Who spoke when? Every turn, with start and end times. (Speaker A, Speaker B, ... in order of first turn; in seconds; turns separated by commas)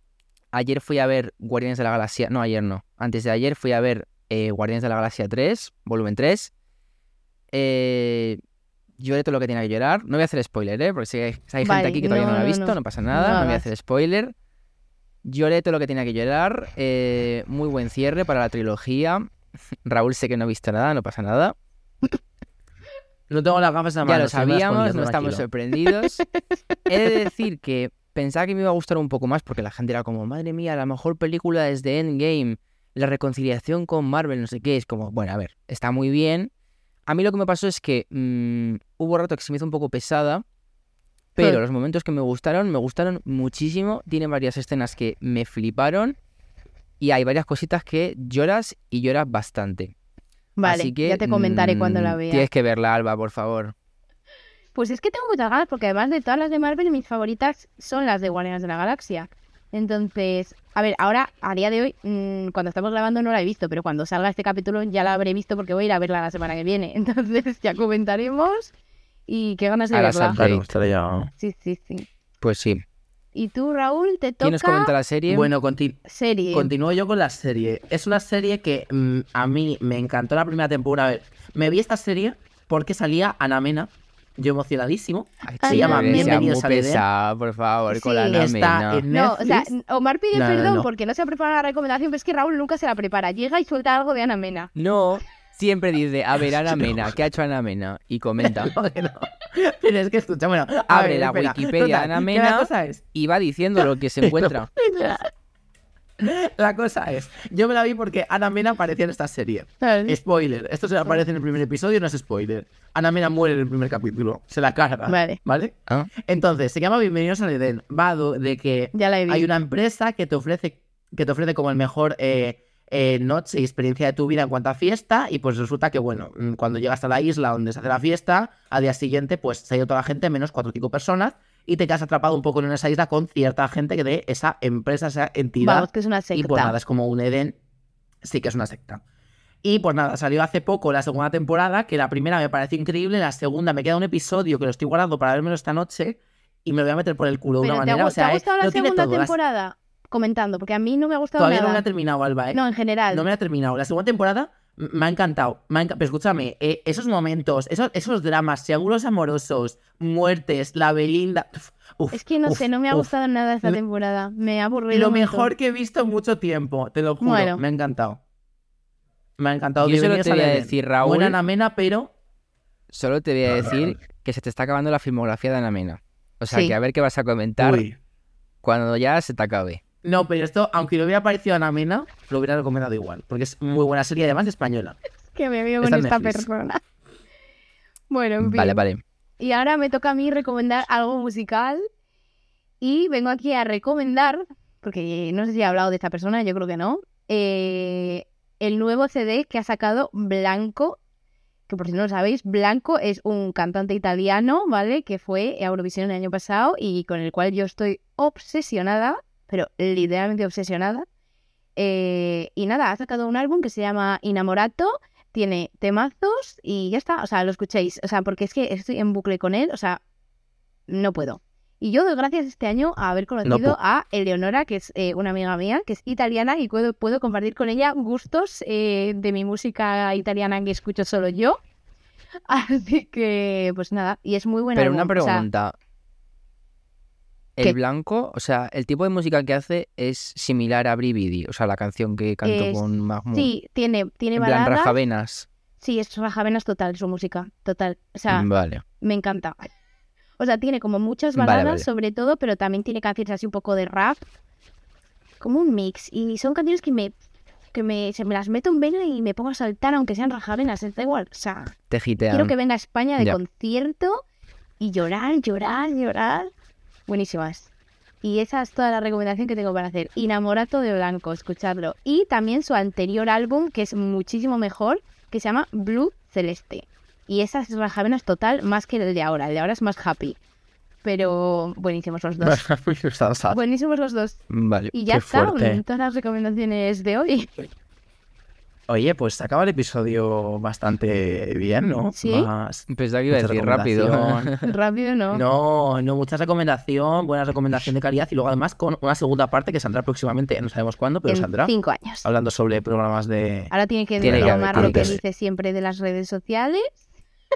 Speaker A: 0.5-6.5, Speaker A: 7.5-8.4, Speaker A: 9.0-14.3, Speaker B: 11.6-13.7, Speaker A: 15.2-19.3, Speaker A: 19.9-21.6, Speaker C: 23.3-25.4, Speaker A: 24.0-26.2, Speaker B: 25.8-26.3, Speaker A: 26.9-36.5, Speaker B: 27.0-27.3, Speaker A: 37.1-40.4, Speaker A: 41.4-46.2, Speaker A: 47.0-49.9, Speaker B: 50.6-52.5, Speaker A: 50.6-53.7, Speaker B: 54.7-68.7, Speaker B: 69.3-70.4, Speaker A: 69.9-70.7, Speaker C: 70.4-71.3, Speaker B: 71.4-72.1, Speaker A: 72.4-72.8, Speaker B: 73.3-74.9, Speaker A: 74.4-75.5, Speaker C: 75.3-76.0, Speaker B: 76.1-76.7, Speaker C: 76.5-87.0, Speaker A: 85.5-89.0, Speaker B: 85.6-86.5, Speaker B: 87.9-88.4, Speaker C: 88.3-89.7, Speaker B: 89.1-94.7, Speaker A: 90.4-90.9, Speaker A: 94.8-98.7, Speaker C: 96.5-97.2, Speaker C: 98.4-103.0, Speaker A: 100.9-104.7, Speaker C: 104.2-104.6, Speaker B: 104.8-105.3, Speaker C: 106.2-137.6, Speaker B: 109.8-110.2, Speaker B: 115.1-115.4, Speaker B: 118.9-119.5, Speaker B: 135.6-136.8, Speaker C: 138.2-139.0, Speaker C: 139.6-149.3, Speaker B: 147.6-151.8, Speaker C: 151.4-152.6, Speaker B: 152.5-153.2, Speaker C: 153.1-163.1, Speaker B: 162.1-165.5, Speaker C: 164.9-168.2, Speaker B: 167.2-167.6, Speaker C: 169.4-172.1, Speaker A: 169.8-171.4, Speaker A: 172.9-177.8, Speaker B: 176.5-176.8, Speaker C: 177.6-178.0, Speaker A: 178.6-179.8, Speaker C: 180.0-185.0, Speaker B: 185.3-186.8, Speaker C: 185.8-186.5, Speaker B: 188.1-188.8, Speaker A: 188.4-189.0, Speaker B: 189.4-191.8, Speaker B: 192.8-201.0, Speaker B: 201.7-211.1, Speaker B: 211.8-220.0, Speaker B: 220.9-231.6, Speaker C: 223.4-223.8, Speaker B: 232.5-235.5, Speaker A: 234.8-235.8, Speaker A: 237.6-243.5, Speaker B: 242.4-245.0, Speaker A: 244.4-245.5, Speaker B: 245.8-248.5, Speaker A: 248.3-248.8, Speaker B: 249.0-249.7, Speaker B: 250.4-254.3, Speaker A: 251.3-251.9, Speaker B: 255.4-257.1, Speaker B: 257.7-261.7, Speaker A: 261.9-262.5, Speaker B: 262.3-264.2, Speaker B: 264.8-266.5, Speaker B: 267.1-267.7, Speaker B: 268.2-280.4, Speaker B: 281.0-282.6, Speaker C: 282.4-283.6, Speaker B: 283.5-284.4, Speaker A: 284.5-285.1, Speaker B: 284.9-287.7, Speaker C: 285.1-285.8, Speaker C: 288.9-294.5, Speaker B: 292.1-292.5, Speaker A: 292.9-294.7, Speaker B: 294.7-295.4, Speaker C: 295.3-301.7, Speaker B: 301.3-302.3, Speaker C: 302.2-305.2, Speaker B: 303.7-307.0, Speaker A: 304.2-305.2